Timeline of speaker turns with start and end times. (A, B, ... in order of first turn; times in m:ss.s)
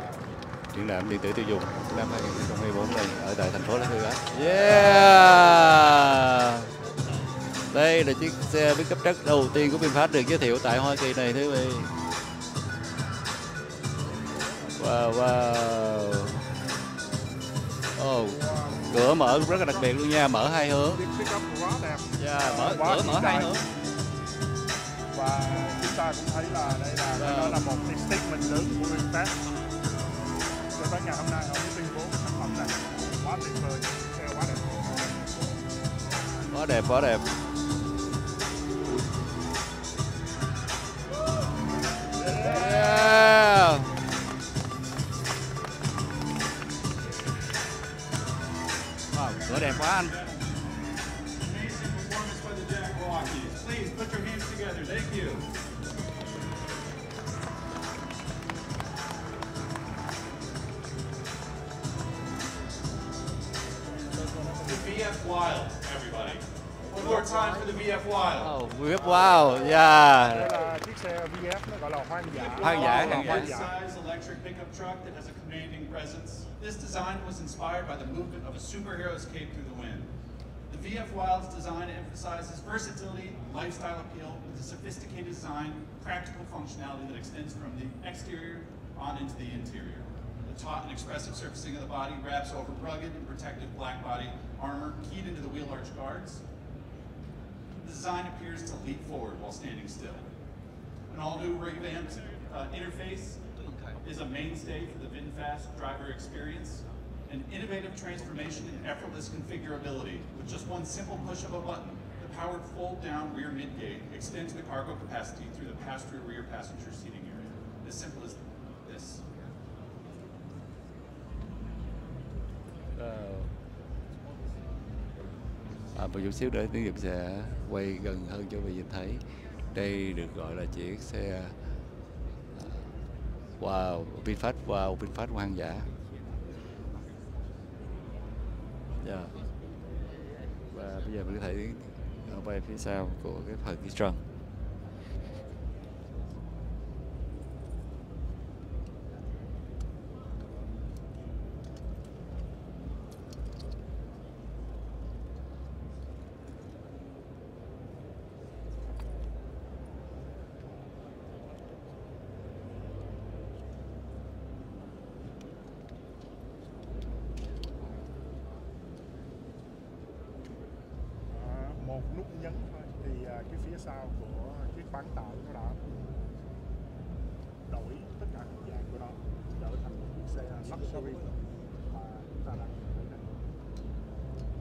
0:00.7-0:06.7 A
0:07.7-0:11.9 A
0:14.7-0:16.4 A
0:18.0-0:21.0 A
0:18.3-0:18.8 B
0:21.0-0:23.5 B
0:22.2-0:23.6 A
0:25.1-0:29.4 B
0:27.2-0:27.7 A
0:30.7-0:35.0 B
0:36.5-0:37.2 A
0:42.2-0:43.9 A
0:49.1-0:50.1 A
0:50.0-0:50.4 C
0:51.4-0:55.5 C
1:04.6-1:08.5 C
1:08.4-1:10.6 A
1:10.3-1:13.7 B
1:12.3-1:20.1 C
1:12.6-1:13.5 A
1:20.7-1:36.4 C
1:37.8-1:40.3 C
1:41.1-1:43.4 C
1:44.0-1:59.2 C
2:03.0-2:03.5 A
2:05.9-2:11.5 A
2:12.6-2:12.9 A
2:13.6-2:15.9 A
2:19.0-2:19.3 A
2:20.7-2:24.2 A
2:51.4-2:55.8 B
2:57.7-3:01.2 B
3:02.1-3:03.2 B